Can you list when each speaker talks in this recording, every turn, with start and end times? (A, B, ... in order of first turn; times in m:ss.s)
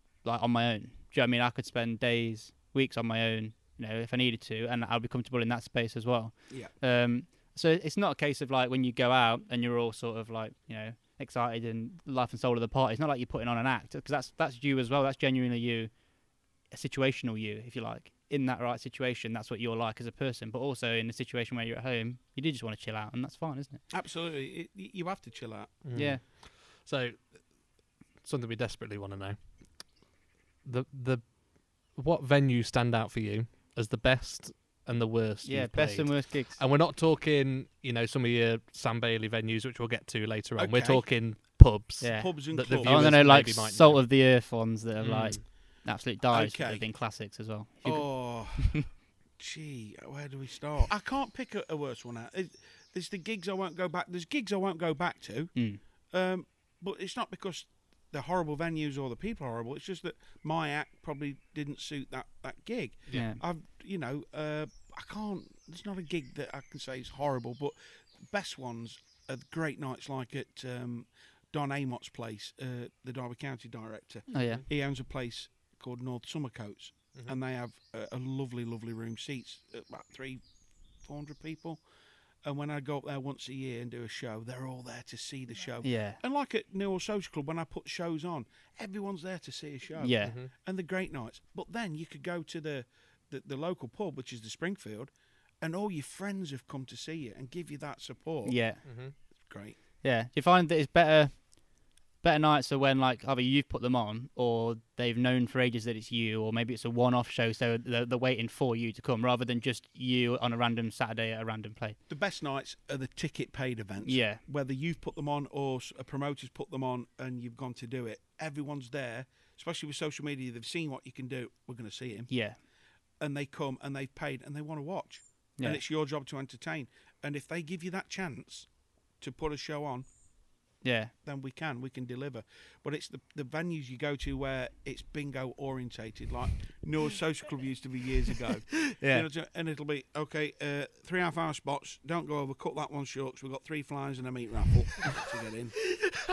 0:00.2-0:15.9 A
0:16.7-0:23.8 A
0:23.9-0:25.7 B
0:25.8-0:27.4 C
0:25.9-0:26.2 A
0:28.2-0:29.8 C
0:30.6-0:44.1 C
0:35.4-0:36.6 A
0:40.6-0:41.2 B
0:42.0-0:48.8 A
0:42.1-0:43.2 B
0:45.0-0:45.4 C
0:46.3-0:46.8 B
0:47.8-1:20.4 B
0:55.5-0:55.8 A
1:03.1-1:03.4 A
1:14.3-1:14.6 A
1:21.0-1:21.8 B
1:22.4-1:38.6 B
1:25.8-1:26.2 A
1:30.0-1:30.4 A
1:30.2-1:30.5 C
1:38.4-1:38.8 A
1:38.8-1:39.1 C
1:39.4-1:39.8 B
1:40.0-1:52.0 A
1:52.1-2:02.3 B
1:54.0-1:54.4 A
2:02.3-2:02.6 A
2:03.2-2:10.1 B
2:10.8-2:11.1 A
2:11.2-2:25.9 B
2:18.9-2:19.2 A